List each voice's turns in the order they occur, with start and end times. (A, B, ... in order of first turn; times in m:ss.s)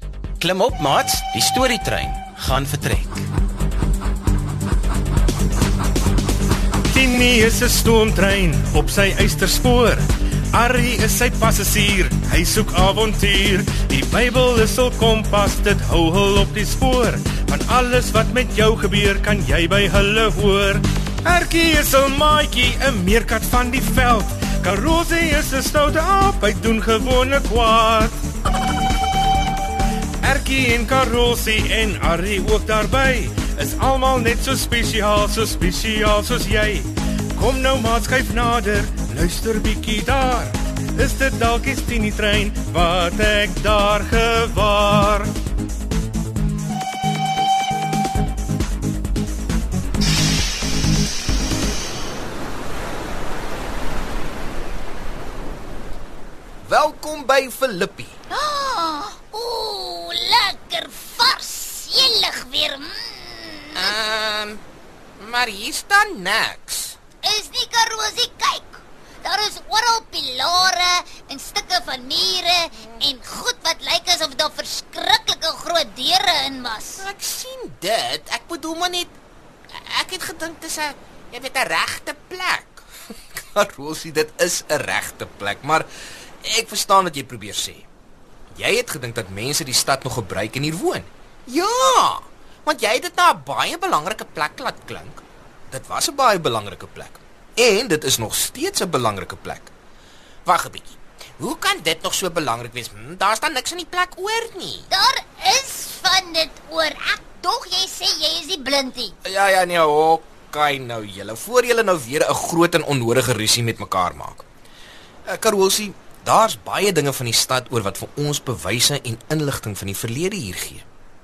0:00.4-0:03.2 A
0:06.9-0:28.2 B
0:30.2-0:45.3 B
0:56.6-0:58.2 C
0:58.3-1:03.9 D
1:03.8-1:04.6 C
1:05.2-1:07.0 C
1:07.2-1:17.0 D
1:12.8-1:13.0 C
1:17.0-1:19.1 C
1:19.8-1:25.9 C
1:26.4-1:27.9 C
1:28.5-1:39.7 C
1:40.4-1:44.9 C
1:44.9-1:49.2 D
1:49.2-1:54.4 C
1:55.2-2:00.8 C